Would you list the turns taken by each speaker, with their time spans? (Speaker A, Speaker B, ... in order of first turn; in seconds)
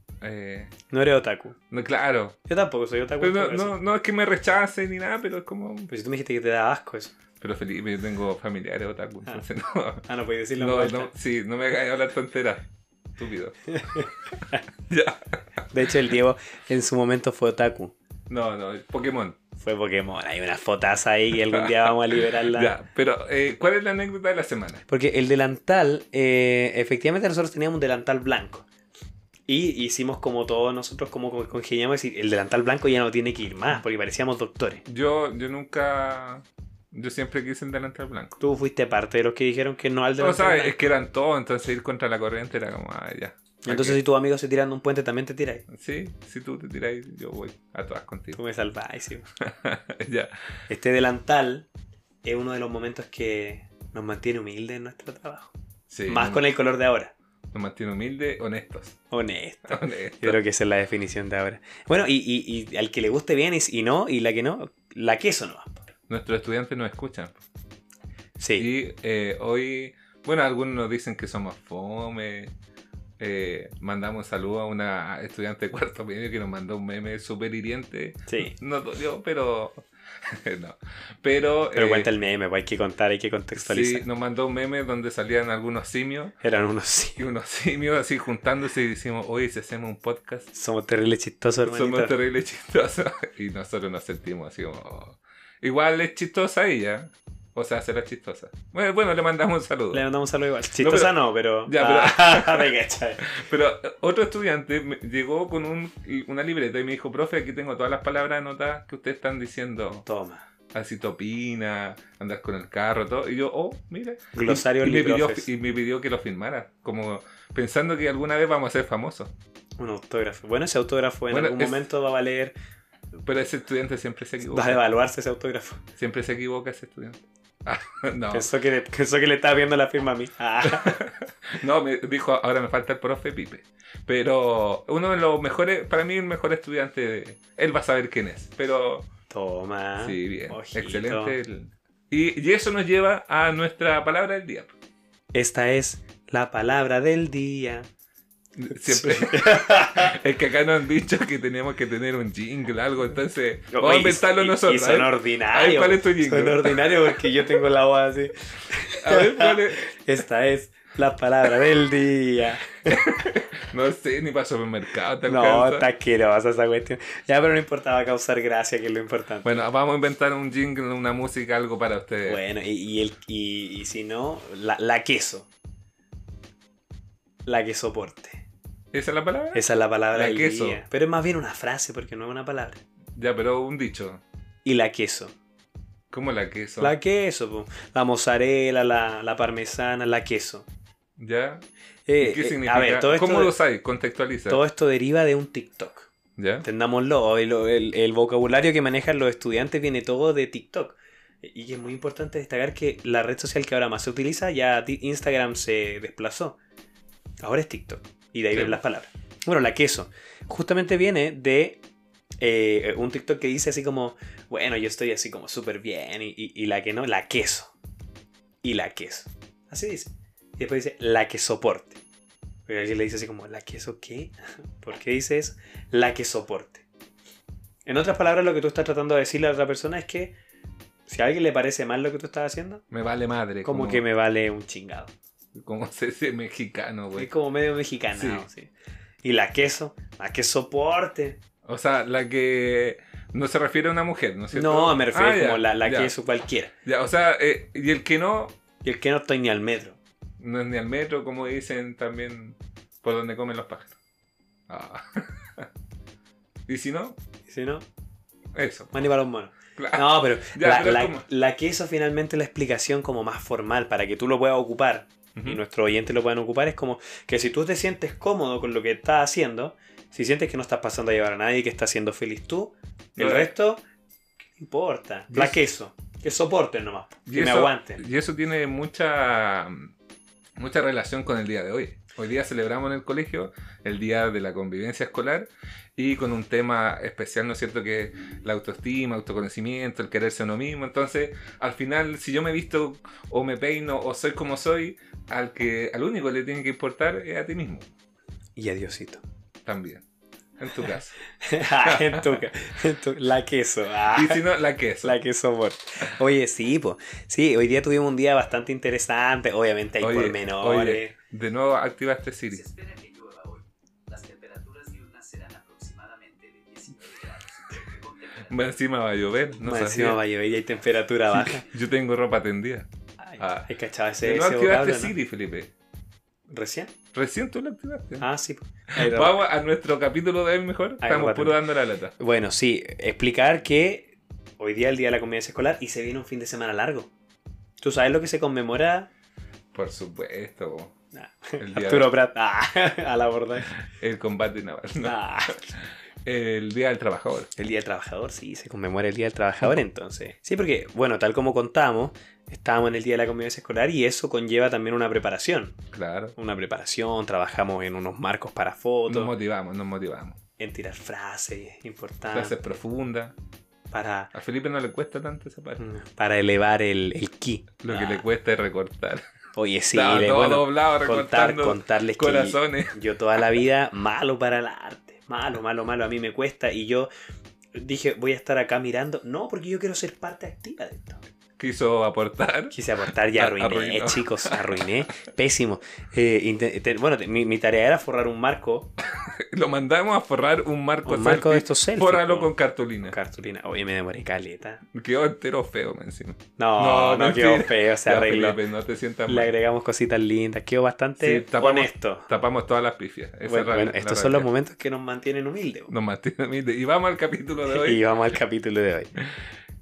Speaker A: 0.2-0.7, 1.7-2.4, 3.2-5.9, 7.4-10.0, 10.6-12.7, 13.2-13.6, 14.9-15.4, 18.3-19.4, 21.5-24.8, 34.9-38.4, 40.2-44.0, 45.7-48.4, 49.4-50.3, 55.9-56.4, 57.5-59.0, 59.7-60.4, 66.1-67.4, 68.6-72.5, 73.2-82.1, 83.6-86.4, 87.2-90.5, 91.6-100.0, 100.8-101.1, 101.7-102.7, 103.3-110.0, 110.7-119.3, 121.3-121.8, 123.2-124.8, 126.0-128.5, 130.6-139.1, 140.0-144.7, 148.6-157.5, 159.0-159.8, 162.9-165.9, 169.4-172.4, 178.9-179.6, 180.1-180.8, 183.2-184.2, 186.1-187.0, 191.2-191.7, 192.2-194.6, 196.4-196.7, 208.5-208.8, 232.9-234.0, 235.5-237.3, 238.2-238.5, 241.7-246.1, 246.8-248.6, 250.4-253.9, 254.7-255.7, 256.7-257.2, 258.5-258.9, 259.8-261.3, 265.4-265.6, 273.2-273.5, 275.3-275.6, 277.3-279.9, 280.6-297.9, 299.6-300.0, 300.6-301.1, 301.8-302.4, 304.1-305.2, 310.0-312.6, 318.5-320.2, 321.3-323.7, 324.2-325.7, 327.1-328.3, 328.9-332.1, 339.7-340.9, 341.6-342.1, 343.7-345.2, 346.2-347.5, 355.9-356.4, 359.1-360.4, 362.3-363.4, 364.3-365.8, 367.8-369.2, 369.9-372.9, 381.6-382.8, 383.4-384.8, 389.1-393.2, 394.9-399.5, 401.2-404.5, 405.9-408.0
Speaker B: 0.9-1.6, 2.5-3.8, 5.9-7.1, 10.1-11.1, 13.7-14.6, 15.7-17.9, 19.6-22.8, 24.9-28.7, 29.5-34.8, 38.4-40.8, 43.6-45.7, 48.4-49.3, 50.7-51.7, 52.2-55.5, 56.1-57.1, 59.1-65.9, 68.4-68.7, 78.3-78.5, 81.7-84.1, 86.4-87.3, 90.5-92.1, 99.9-103.4, 110.1-110.4, 114.3-115.5, 119.8-122.5, 124.5-125.8, 128.3-131.0, 139.3-141.4, 145.3-147.9, 148.8-150.2, 153.7-163.1, 165.2-169.6, 172.3-175.5, 177.4-178.4, 179.5-182.8, 184.7-185.3, 186.8-190.7, 192.1-193.5, 194.5-196.1, 196.6-206.6, 207.4-211.8, 212.4-217.7, 218.6-222.0, 222.7-226.9, 227.9-230.3, 231.1-232.8, 233.6-235.1, 237.2-238.7, 239.2-241.4, 244.5-246.7, 248.8-250.0, 257.5-257.9, 258.9-273.8, 274.6-278.0, 298.6-299.2, 301.4-304.4, 305.0-311.1, 319.6-321.6, 323.2-325.1, 326.5-326.9, 328.2-329.4, 331.0-331.6, 332.2-337.1, 337.8-339.1, 341.1-343.8, 345.0-345.8, 347.6-355.8, 356.4-359.3, 360.6-362.6, 363.9-364.3, 365.8-368.2, 369.6-377.1, 377.7-381.2, 382.7-388.9, 391.1-392.5, 393.0-394.8, 396.6-398.6, 399.3-402.3, 403.5-405.9, 407.6-409.1
Speaker C: 312.5-318.7